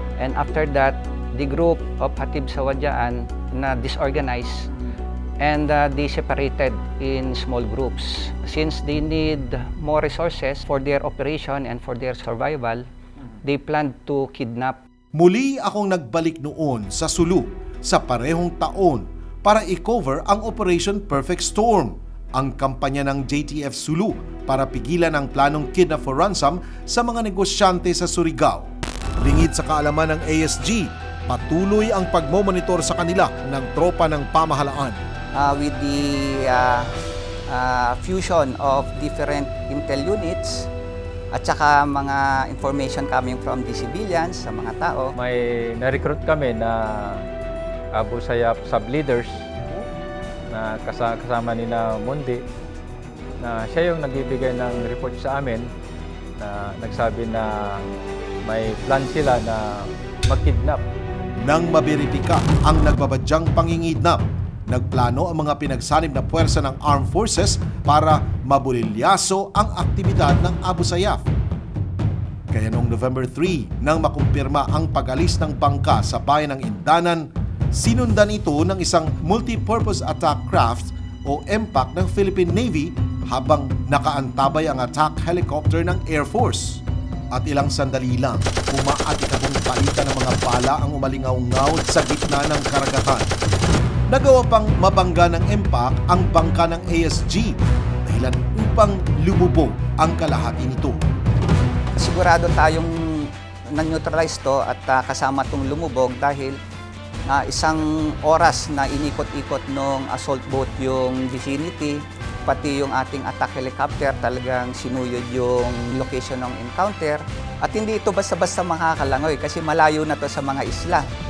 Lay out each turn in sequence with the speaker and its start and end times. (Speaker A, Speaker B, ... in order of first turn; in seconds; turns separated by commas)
Speaker A: 0.2-4.7, Speaker A: 5.4-12.8, Speaker A: 13.4-14.8, Speaker B: 15.2-28.7, Speaker B: 29.2-35.0, Speaker A: 35.4-36.9, Speaker A: 37.5-40.7, Speaker A: 41.3-45.1, Speaker C: 45.2-47.2, Speaker C: 48.0-49.4, Speaker C: 50.6-52.4, Speaker C: 53.4-55.7, Speaker C: 56.4-57.8, Speaker C: 58.5-60.8, Speaker B: 61.4-71.2, Speaker B: 72.5-93.3, Speaker B: 94.1-101.0, Speaker A: 101.9-106.6, Speaker A: 107.2-121.1